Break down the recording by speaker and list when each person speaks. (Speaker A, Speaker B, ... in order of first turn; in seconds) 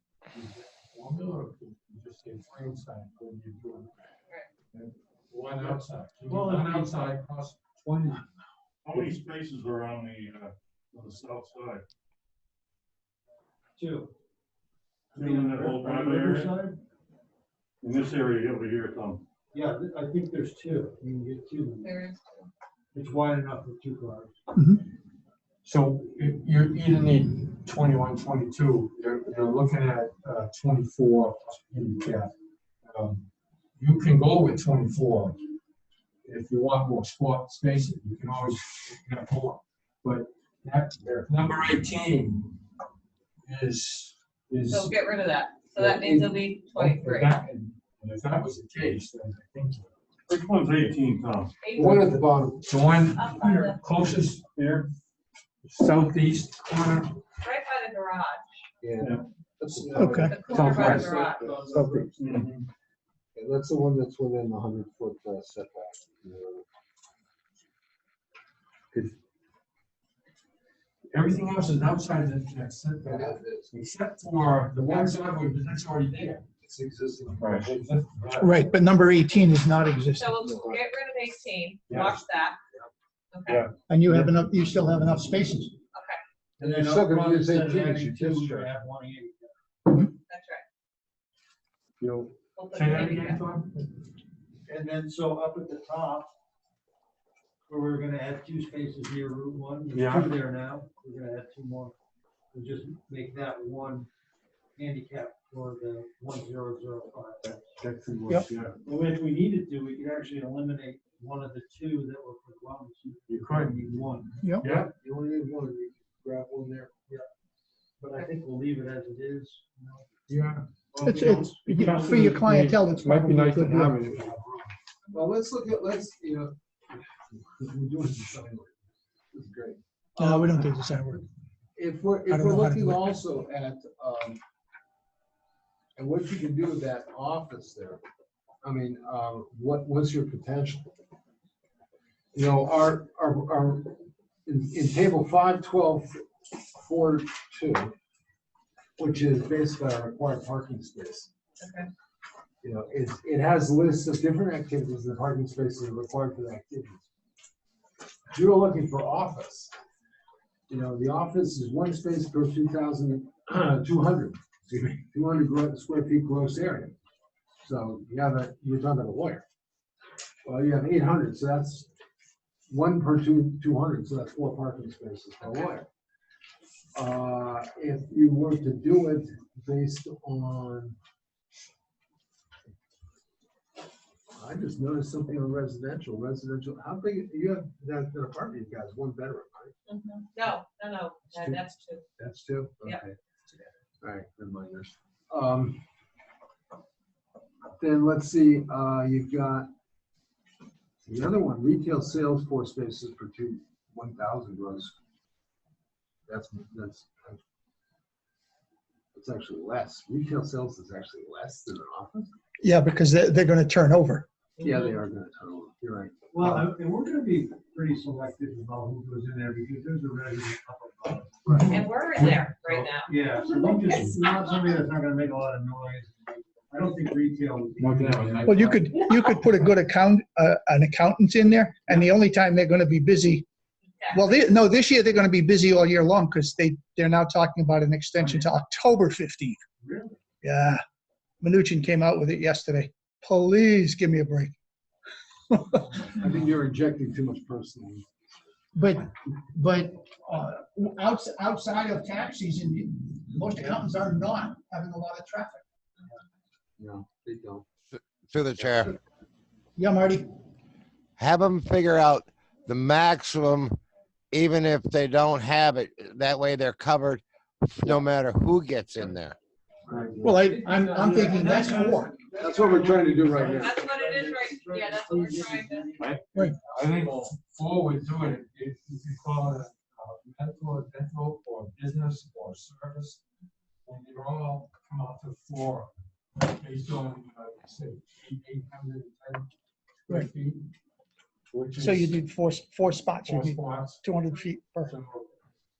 Speaker A: 0.3-3.9, 4.7-8.2, 25.6-32.3, 32.9-33.2, 33.8-35.4, 36.2-42.5, 43.4-44.9, 45.8-49.9, 52.6-54.4, 55.6-57.2, 60.5-62.1, 71.1-76.4, 77.5-78.5, 92.0-93.8, 100.0-100.3, 107.9-108.4, 113.3-113.6, 120.3-124.2, 221.5-222.9, 227.8-228.9, 270.4-271.4, 276.7-283.2, 283.9-289.5, 290.1-290.7, 291.5-292.1, 293.2-294.1, 294.8-295.3
Speaker B: 5.6-7.0, 13.8-14.1, 15.1-16.8, 19.5-21.9, 22.9-24.3, 86.6-89.5, 94.7-96.3, 97.7-101.9, 102.5-104.1, 104.8-107.7, 108.8-114.7, 118.0-120.1, 123.8-124.7, 216.3-221.8, 223.1-228.4, 239.8-240.2, 271.0-276.7
Speaker C: 8.8-11.8, 15.1-16.6, 17.8-19.2, 50.3-51.5, 54.5-54.9, 62.1-62.6, 77.4-77.7, 83.5-83.7, 107.8-108.8, 276.8-277.3
Speaker D: 21.8-22.5, 44.7-47.4, 51.6-52.0, 53.2-53.8, 57.4-58.6, 60.2-61.5, 80.2-82.6, 83.3-83.6, 85.9-86.2, 90.3-90.6, 92.5-93.4, 151.6-151.9, 175.4-175.7, 189.9-192.0, 214.6-214.9, 221.7-224.0, 273.4-275.9
Speaker E: 24.5-24.8, 59.9-60.3, 78.4-80.3, 83.9-85.7, 121.0-123.9, 130.2-131.2, 132.3-133.1, 212.6-214.2, 228.4-233.4, 234.1-239.6, 240.4-240.8, 241.4-244.5, 245.5-246.0, 248.7-255.6, 259.8-260.3, 270.2-272.1, 291.8-294.9
Speaker F: 41.0-41.3, 51.8-52.7, 58.8-62.2, 63.4-66.6, 73.0-73.7, 74.7-75.2, 76.6-77.8, 80.4-80.8, 86.6-88.7, 114.9-116.9, 125.1-128.8, 129.3-130.5, 131.8-134.4, 135.9-138.0, 138.6-140.9, 142.3-147.9, 149.0-151.3, 152.6-157.0, 158.3-159.7, 160.7-166.9, 167.6-169.4, 170.4-171.9, 172.7-175.9, 176.9-181.0, 184.3-189.7, 191.3-191.6, 192.2-193.2, 194.0-195.8, 197.8-199.7, 201.0-204.9, 206.3-207.4, 209.1-212.3, 214.6-216.7, 246.1-248.1, 256.8-257.6, 258.6-258.9, 269.9-270.4, 272.4-273.8
Speaker G: 258.2-258.9, 261.2-263.8, 264.3-269.3